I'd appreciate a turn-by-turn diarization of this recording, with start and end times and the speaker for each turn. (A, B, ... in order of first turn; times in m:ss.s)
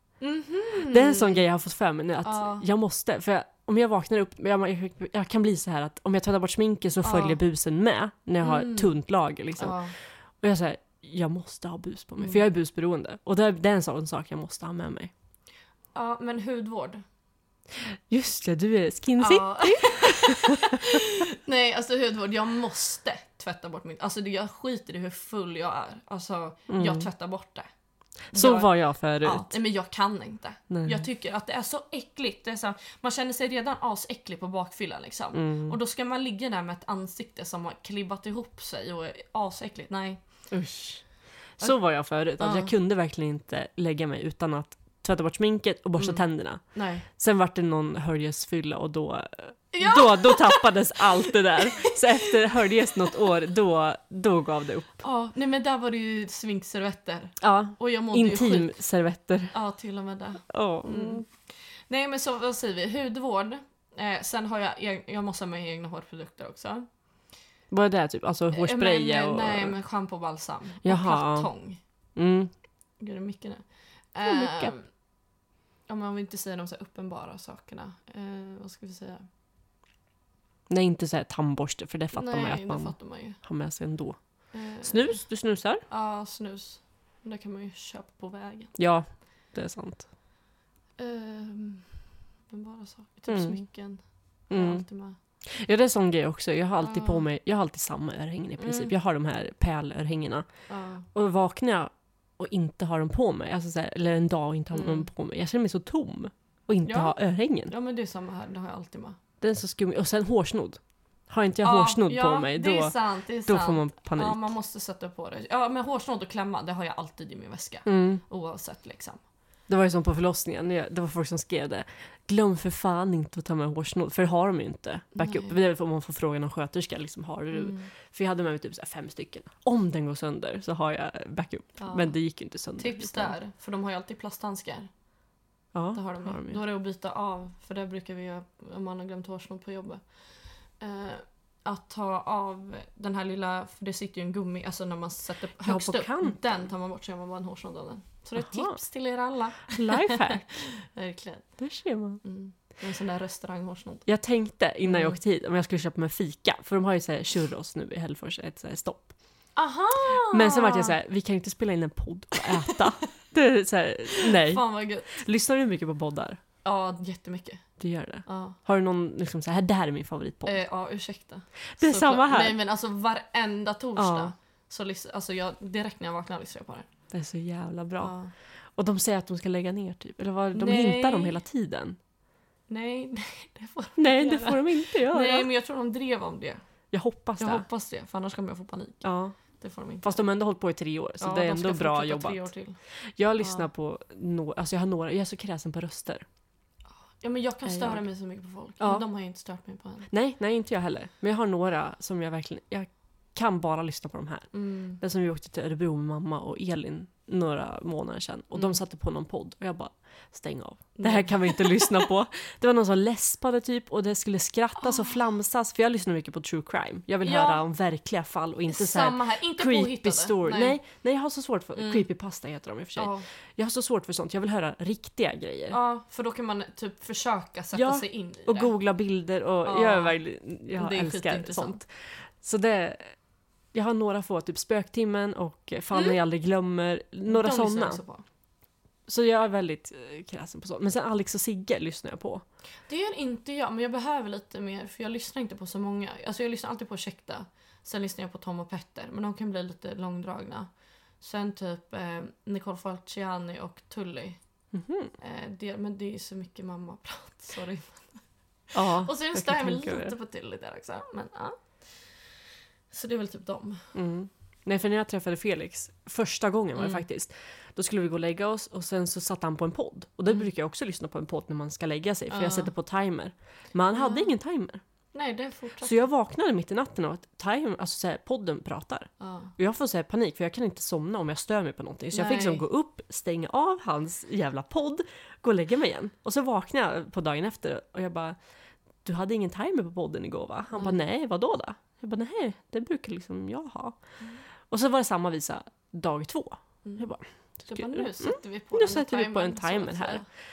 0:00.2-0:01.4 A
0:00.9-0:09.8 B
0:02.2-0:02.6 A
0:07.0-0:07.4 A
0:08.4-0:09.0 A
0:09.6-0:10.0 A
0:10.4-0:15.1 B
0:15.9-0:17.0 A
0:17.9-0:21.0 B
0:19.2-0:27.7 A
0:26.7-0:27.1 B
0:28.3-0:40.2 A
0:28.3-0:29.6 B
0:30.7-0:31.0 B
0:35.3-0:35.8 B
0:40.5-0:41.1 B
0:41.6-0:55.0 B
0:42.4-0:42.7 A
0:46.7-0:47.1 A
0:49.7-0:53.1 A
0:55.0-0:58.7 A
0:57.4-0:59.5 B
0:59.5-1:06.9 A
1:00.5-1:01.2 B
1:07.7-1:09.8 B
1:08.5-1:11.8 A
1:10.8-1:11.5 B
1:12.2-1:12.5 B
1:13.0-1:14.9 A
1:14.2-1:14.7 B
1:15.9-1:19.2 A
1:20.7-1:24.2 B
1:22.1-1:23.4 A
1:24.5-1:25.2 A
1:24.8-1:25.8 B
1:25.9-1:28.7 A
1:28.8-1:30.1 B
1:31.0-1:31.9 A
1:32.5-1:35.2 A
1:33.3-1:33.6 B
1:34.5-1:34.8 B
1:35.4-1:40.5 B
1:36.8-1:37.3 A
1:38.6-1:38.9 A
1:40.7-1:41.1 A
1:41.1-1:47.7 B
1:44.7-1:45.1 A
1:46.8-1:47.2 A
1:47.7-1:49.2 A
1:49.4-1:54.5 B
1:51.6-1:59.2 A
1:57.9-1:58.2 B
1:59.7-2:13.4 B
2:05.2-2:05.6 A
2:07.5-2:07.9 A
2:11.8-2:12.2 A
2:12.8-2:14.9 A
2:15.7-2:16.6 B
2:15.9-2:20.0 A
2:20.8-2:31.5 A
2:25.6-2:26.4 B
2:28.4-2:28.8 B
2:29.7-2:30.5 B
2:31.6-2:32.2 B
2:32.2-2:34.1 A
2:34.1-2:39.1 B
2:34.8-2:35.2 A
2:39.6-2:41.0 A
2:40.3-2:46.4 B
2:42.6-2:43.0 A
2:44.1-2:45.2 A
2:46.6-2:47.6 A
2:47.8-2:50.6 B
2:48.3-2:48.6 A
2:50.5-2:56.9 A
2:51.8-2:52.6 B
2:54.0-2:54.3 B
2:57.1-2:58.2 B
2:58.0-2:58.3 A
2:58.8-3:02.0 B
3:00.5-3:01.4 A
3:02.7-3:06.6 A
3:04.0-3:05.5 B
3:06.9-3:07.7 B
3:07.4-3:09.1 A
3:09.0-3:09.4 B
3:09.6-3:10.2 A
3:10.0-3:12.5 B
3:11.2-3:12.8 A
3:13.2-3:16.2 B
3:13.4-3:13.6 A
3:17.2-3:20.1 A
3:17.7-3:18.0 B
3:20.1-3:45.8 B
3:24.5-3:25.0 A
3:31.0-3:32.1 A
3:34.8-3:35.2 A
3:37.2-3:37.6 A
3:38.7-3:40.8 A
3:41.8-3:42.1 A
3:43.0-3:43.3 A
3:45.7-3:48.7 A
3:47.7-3:53.2 B
3:49.6-3:50.2 A
3:50.7-3:51.8 A
3:53.7-3:58.0 B
3:55.9-3:56.2 A
3:57.3-3:58.2 A
3:59.1-4:02.4 B
4:02.9-4:10.7 A
4:11.2-4:14.4 A
4:14.7-4:15.1 B
4:15.2-4:22.1 A
4:18.7-4:20.2 B
4:22.9-4:23.9 A
4:23.9-4:34.8 B
4:26.8-4:27.0 A
4:32.3-4:32.7 A
4:33.9-4:34.3 A
4:35.1-4:36.1 A
4:35.8-4:48.4 B
4:39.2-4:39.5 A
4:42.1-4:42.6 A
4:49.0-4:54.0 B
4:50.7-4:51.0 A
4:54.7-5:00.2 B
4:56.8-4:57.1 A
4:57.7-5:00.2 A